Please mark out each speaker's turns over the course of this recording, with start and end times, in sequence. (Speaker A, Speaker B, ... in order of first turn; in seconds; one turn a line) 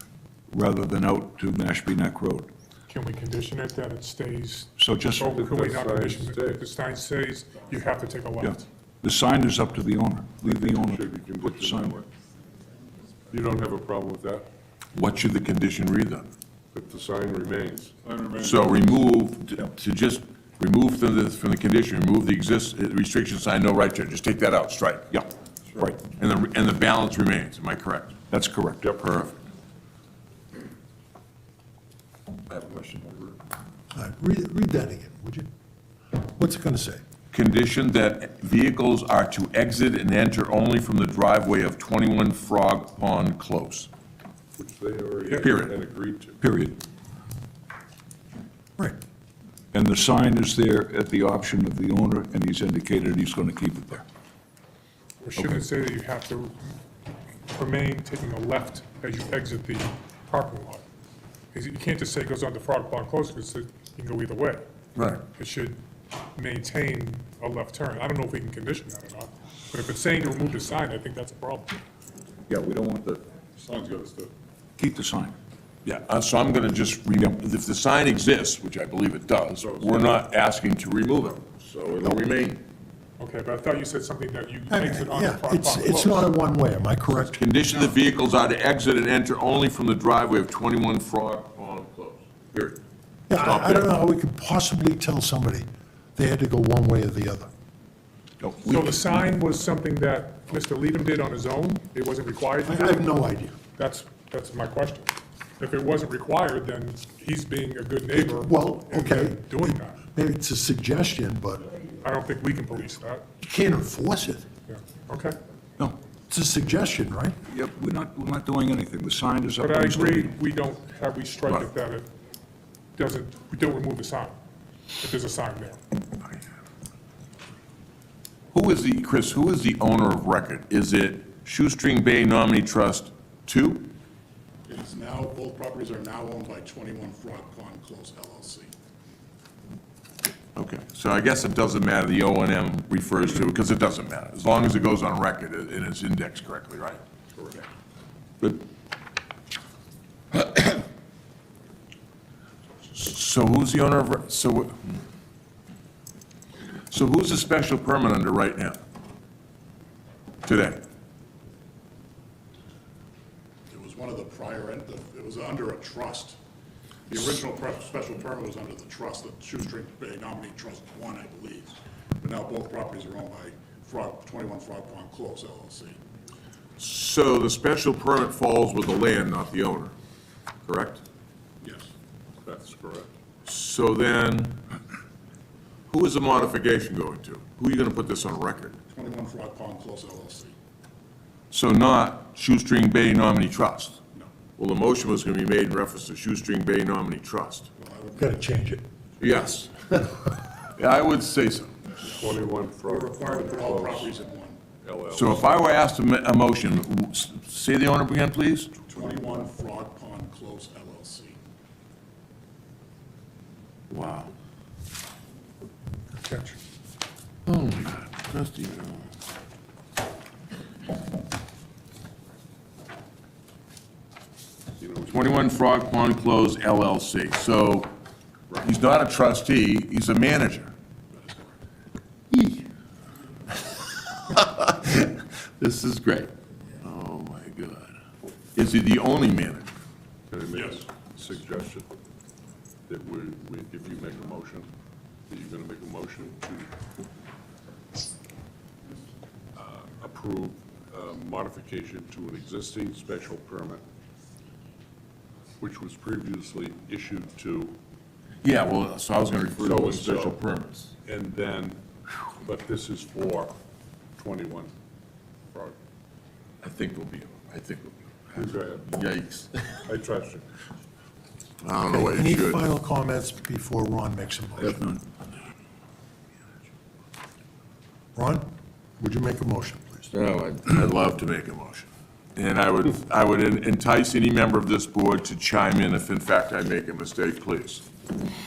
Speaker A: 0.5-2.5
Speaker B: 2.9-8.7
Speaker A: 4.8-5.3
Speaker C: 5.2-6.6
Speaker A: 8.4-12.0
Speaker C: 10.4-12.0
Speaker C: 13.3-14.5
Speaker D: 14.9-16.3
Speaker C: 16.7-17.9
Speaker D: 18.3-25.2
Speaker D: 26.1-28.2
Speaker A: 28.3-29.0
Speaker D: 29.0-29.3
Speaker E: 33.9-35.5
Speaker E: 36.4-37.0
Speaker D: 37.3-43.9
Speaker C: 44.5-46.4
Speaker B: 45.2-45.5
Speaker D: 45.4-45.8
Speaker A: 46.4-46.8
Speaker A: 49.7-54.0
Speaker B: 55.2-56.5
Speaker B: 57.5-60.8
Speaker B: 61.5-64.6
Speaker D: 65.0-65.2
Speaker B: 65.3-65.8
Speaker B: 66.3-71.8
Speaker A: 72.5-73.2
Speaker A: 74.8-75.4
Speaker D: 75.8-82.6
Speaker B: 83.2-86.3
Speaker E: 84.7-87.5
Speaker D: 87.3-92.8
Speaker E: 93.3-97.5
Speaker D: 93.4-93.9
Speaker D: 98.5-98.9
Speaker B: 98.6-103.1
Speaker E: 102.6-103.6
Speaker B: 103.8-110.0
Speaker E: 108.1-111.7
Speaker B: 112.0-113.2
Speaker E: 113.4-114.5
Speaker B: 114.7-115.4
Speaker E: 116.3-117.3
Speaker A: 117.5-120.4
Speaker B: 119.6-122.1
Speaker B: 123.0-124.4
Speaker B: 125.0-125.8
Speaker D: 128.5-133.9
Speaker F: 134.7-138.7
Speaker D: 140.6-147.0
Speaker D: 150.3-150.8
Speaker D: 152.9-155.0
Speaker D: 156.9-158.8
Speaker D: 160.4-160.8
Speaker F: 163.7-166.4
Speaker F: 167.1-176.0
Speaker D: 176.8-179.9
Speaker D: 180.7-181.0
Speaker F: 181.6-181.9
Speaker C: 182.4-183.1
Speaker D: 183.5-184.6
Speaker D: 185.9-188.8
Speaker F: 188.9-190.5
Speaker D: 191.5-194.0
Speaker D: 194.6-197.7
Speaker F: 197.8-198.4
Speaker E: 198.2-198.8
Speaker D: 199.2-201.9
Speaker C: 202.1-204.1
Speaker F: 203.0-204.6
Speaker C: 204.8-205.7
Speaker D: 205.1-208.7
Speaker F: 208.9-211.4
Speaker C: 208.9-209.3
Speaker D: 213.9-214.3
Speaker B: 216.1-216.6
Speaker D: 217.5-219.0
Speaker D: 224.9-227.9
Speaker D: 228.5-230.7
Speaker D: 232.3-232.7
Speaker D: 233.8-238.0
Speaker D: 238.6-239.7
Speaker C: 240.3-241.9
Speaker C: 242.9-244.7
Speaker C: 245.3-246.7
Speaker C: 249.6-253.8
Speaker C: 255.6-257.8
Speaker D: 258.4-260.9
Speaker C: 259.6-260.4
Speaker C: 261.0-261.8
Speaker C: 262.4-263.5
Speaker C: 264.2-264.7
Speaker C: 265.5-265.8
Speaker D: 266.6-269.9
Speaker C: 268.3-268.9
Speaker C: 269.9-270.4
Speaker D: 271.6-272.6
Speaker E: 271.9-274.8
Speaker A: 274.6-275.0
Speaker E: 278.1-278.4
Speaker E: 279.0-280.1
Speaker D: 280.1-287.8